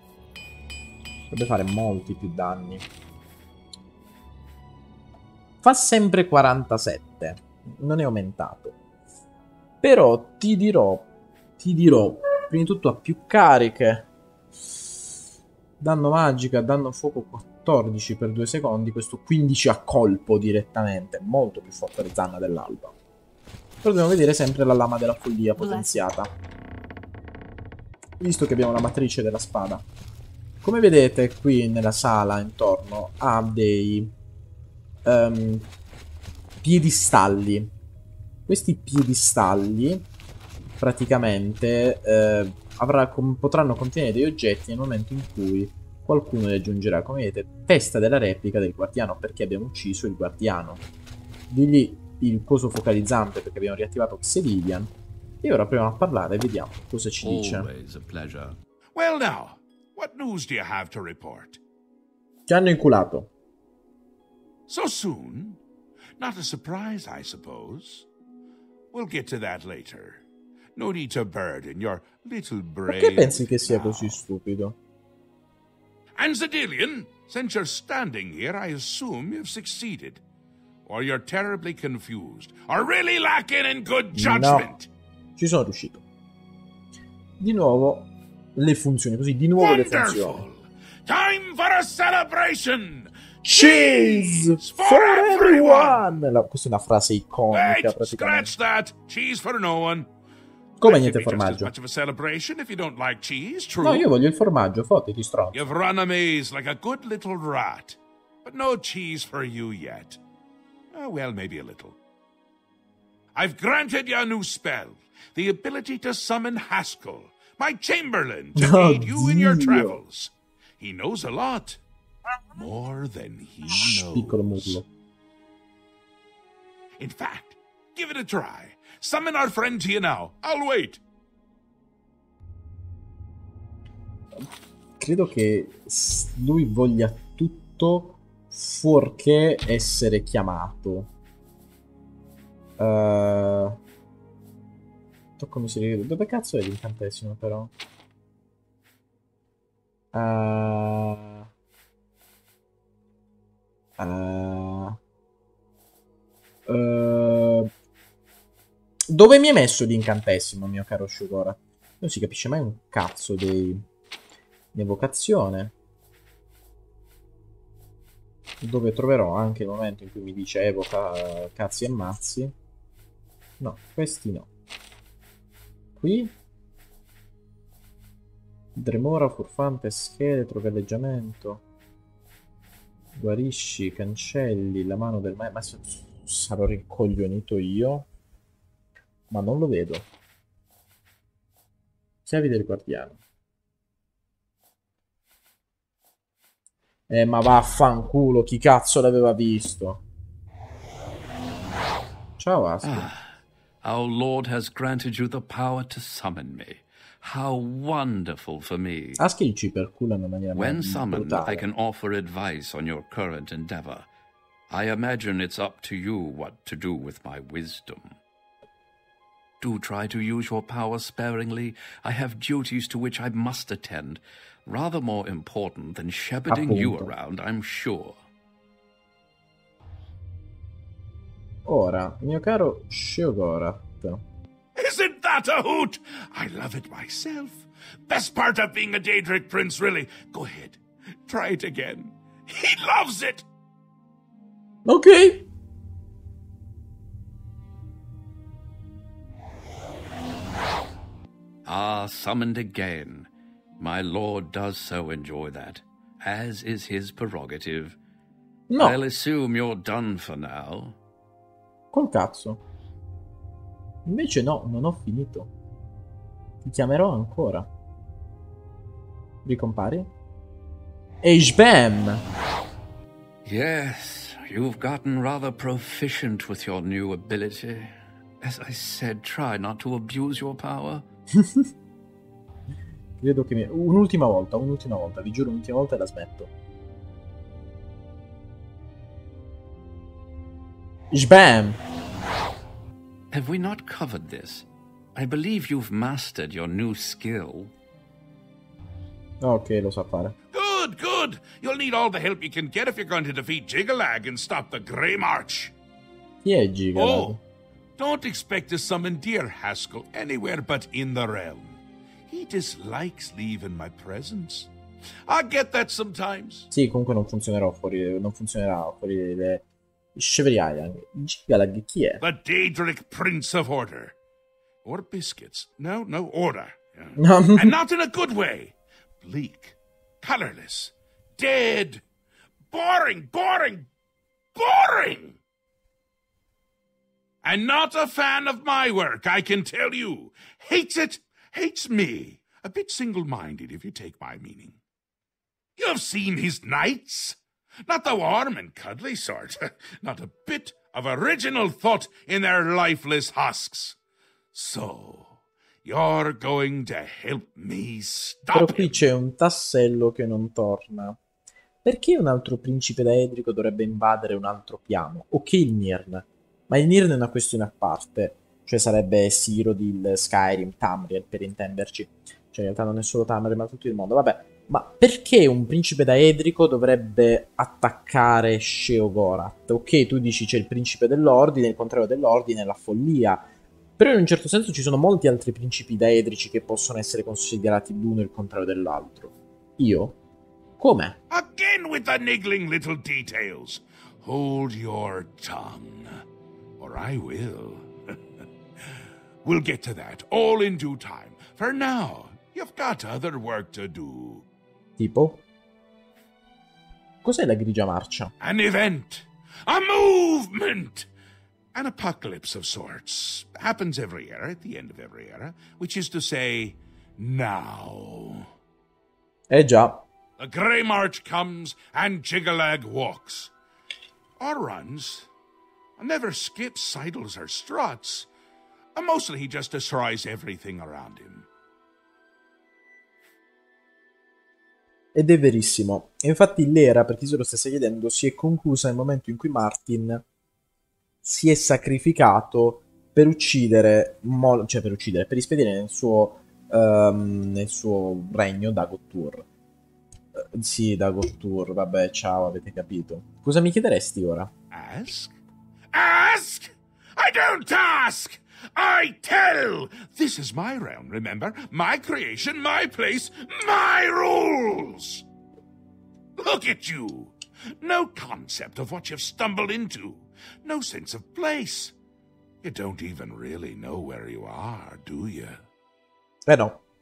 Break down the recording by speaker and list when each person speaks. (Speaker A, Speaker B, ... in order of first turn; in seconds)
Speaker A: 1.3-2.9, 5.6-8.8, 9.8-11.1, 11.6-14.1, 15.8-23.0, 23.8-26.3, 28.2-29.9, 30.6-34.1, 35.0-35.7, 36.6-37.7, 38.5-40.1, 40.8-50.8, 51.5-57.7, 62.5-63.3, 72.9-74.8, 84.1-84.7, 85.4-86.0, 87.4-90.5, 93.5-98.5, 100.8-101.7, 103.8-105.7, 118.6-120.0, 123.7-124.8, 135.0-141.1, 142.8-143.8, 145.4-147.7, 150.1-151.5, 154.0-155.0, 156.7-157.7, 159.1-163.8, 164.7-165.7, 168.6-172.5, 173.6-174.5, 176.0-176.3, 178.8-181.6, 183.2-188.1, 189.3-190.1, 192.3-193.2, 197.1-200.0, 202.4-203.1, 209.2-211.7, 226.5-227.1, 231.7-234.2, 244.9-245.5, 258.7-259.0, 261.9-262.6, 264.1-265.5, 266.6-267.7, 269.4-270.1, 271.2-272.2, 281.4-281.7, 283.2-286.5, 291.1-291.8, 299.4-300.4, 306.4-307.4, 316.7-319.6, 320.1-322.2, 327.2-327.8, 358.5-361.2, 361.8-390.2, 390.8-391.2, 405.0-405.4, 407.2-408.3, 419.5-420.1, 435.1-440.2, 441.2-449.5, 450.3-454.5, 476.5-476.8
Speaker B: 57.2-58.6, 202.8-209.2, 210.6-214.1, 214.7-218.2, 219.6-228.2, 251.7-258.0, 258.8-260.9, 273.4-281.1, 293.3-297.7
Speaker C: 58.9-61.6, 64.7-65.6, 66.2-68.1, 68.9-70.2, 70.8-74.2, 76.2-80.2, 80.8-84.9, 89.6-96.1, 97.5-100.1, 100.8-104.1, 105.5-110.2, 110.9-112.0, 113.3-121.8, 122.5-124.8, 127.0-131.0, 234.8-243.5, 300.5-305.7, 307.0-307.4, 308.0-314.7, 315.3-316.7, 322.2-324.1, 324.8-332.0, 332.7-333.9, 334.6-335.4, 337.4-344.8, 345.8-354.0, 354.5-359.0, 391.3-396.2, 396.8-398.2, 399.4-404.4, 408.4-411.1, 411.7-418.5, 420.4-423.5, 424.4-425.3, 426.0-428.3, 428.9-431.5, 454.7-455.4, 455.9-465.2, 466.4-471.9, 472.6-475.6